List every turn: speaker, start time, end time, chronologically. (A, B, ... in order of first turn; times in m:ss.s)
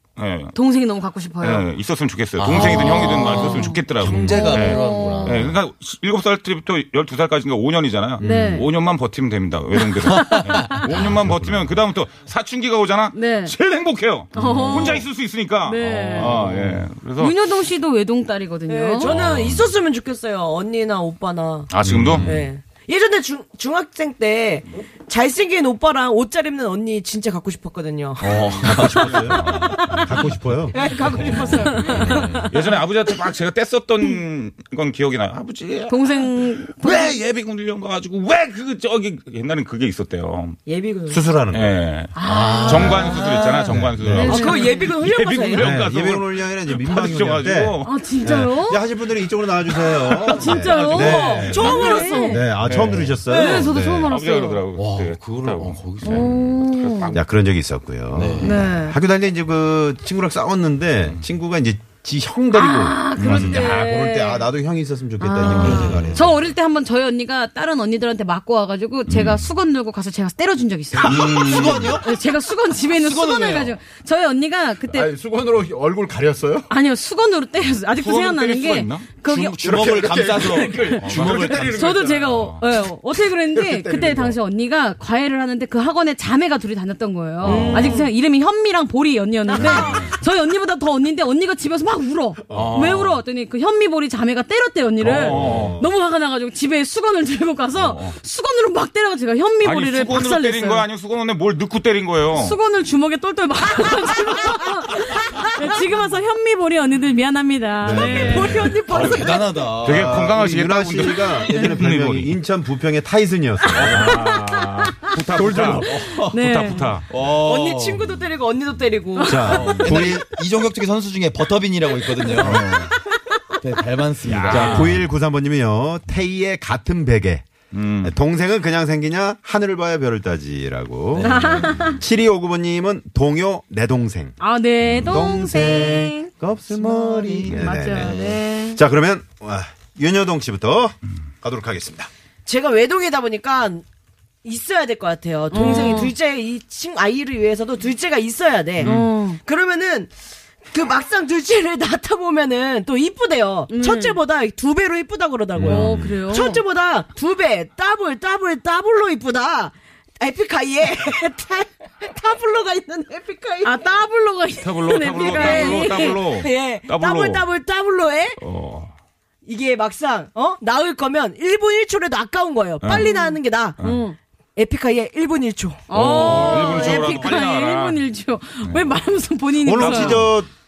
0:00.2-0:00.6 A
0:00.5-0:01.7 B
0:01.4-0:17.4 A
0:02.4-0:05.6 C
0:02.7-0:05.5 B
0:08.2-0:08.7 D
0:08.2-0:08.7 B
0:10.1-0:10.7 C
0:10.2-0:10.5 B
0:10.9-0:11.8 D
0:13.1-0:13.5 B
0:14.3-0:14.9 C
0:14.4-0:14.7 D
0:14.4-0:15.0 B
0:15.6-0:16.4 B
0:15.8-0:16.8 C
0:17.2-0:19.2 B
0:18.7-0:32.4 E
0:19.0-0:19.7 C
0:21.7-0:22.3 A
0:21.9-0:22.4 C
0:21.9-0:22.2 D
0:28.2-0:29.1 C
0:28.3-0:30.2 A
0:28.6-0:31.4 D
0:31.1-0:31.6 A
0:31.4-0:32.5 C
0:31.7-0:32.1 B
0:32.4-0:40.6 A
0:35.9-0:37.2 B
0:40.7-0:41.2 E
0:41.1-0:41.7 D
0:41.5-0:48.0 A
0:42.2-0:43.1 B
0:42.3-0:44.4 D
0:44.2-0:45.7 E
0:44.2-0:44.8 B
0:45.6-0:54.1 D
0:47.8-0:48.8 B
0:50.0-0:52.0 A
0:50.3-0:52.5 B
0:51.2-0:52.4 E
0:52.6-0:53.2 A
0:53.3-0:54.7 B
0:53.3-0:53.7 E
0:54.1-0:57.4 A
0:54.7-0:56.5 C
0:56.0-0:57.2 B
0:57.1-1:06.3 D
0:58.1-0:58.6 C
0:58.4-0:59.0 B
1:02.5-1:04.5 B
1:03.2-1:03.7 A
1:05.2-1:15.1 B
1:05.4-1:06.1 A
1:05.4-1:06.3 C
1:11.0-1:12.0 C
1:11.0-1:12.0 D
1:12.9-1:13.8 C
1:14.8-1:16.7 D
1:16.7-1:19.9 B
1:18.0-1:19.2 A
1:19.2-1:22.0 C
1:19.6-1:21.6 D
1:21.0-1:22.7 A
1:21.7-1:40.8 B
1:23.5-1:24.4 D
1:27.5-1:28.1 E
1:27.6-1:28.0 C
1:29.6-1:30.0 A
1:29.6-1:30.0 E
1:32.5-1:32.9 D
1:32.5-1:33.2 C
1:35.0-1:35.8 A
1:35.0-1:35.9 D
1:39.6-1:42.6 A
1:42.3-1:49.2 B
1:47.8-1:48.8 D
1:47.8-1:49.7 E
1:48.8-1:50.1 C
1:49.8-1:52.4 A
1:49.8-1:54.2 D
1:53.7-1:57.0 A
1:53.9-1:54.8 B
1:55.3-1:56.0 D
1:55.7-1:56.9 B
1:55.8-1:56.4 C
1:57.1-1:58.1 C
1:57.2-2:00.0 E
1:59.2-1:59.9 B
1:59.2-2:00.3 D
1:59.4-2:02.9 C
2:02.4-2:02.8 D
2:03.6-2:05.0 C
2:04.2-2:05.1 A
2:04.3-2:07.5 D
2:07.7-2:08.2 A
2:08.0-2:22.1 D
2:11.1-2:11.9 C
2:11.3-2:12.0 B
2:14.4-2:16.3 B
2:16.8-2:17.6 E
2:17.5-2:18.8 B
2:22.5-2:23.8 E
2:24.4-2:30.1 E
2:25.5-2:26.1 B
2:28.8-2:29.4 B
2:28.8-2:29.1 A
2:30.7-2:43.8 E
2:33.7-2:34.2 B
2:35.6-2:36.2 D
2:35.6-2:36.6 B
2:43.6-2:46.2 B
2:44.6-2:47.5 A
2:45.1-2:48.4 E
2:48.4-2:48.9 A
2:49.4-2:53.8 E
2:52.8-2:53.1 A
2:52.9-2:54.2 B
2:53.8-2:54.0 A
2:54.6-2:56.8 E
2:55.9-3:00.3 B
2:55.9-2:58.0 A
2:56.8-2:57.4 D
2:58.6-2:59.0 A
2:59.6-3:00.5 D
2:59.8-3:00.0 A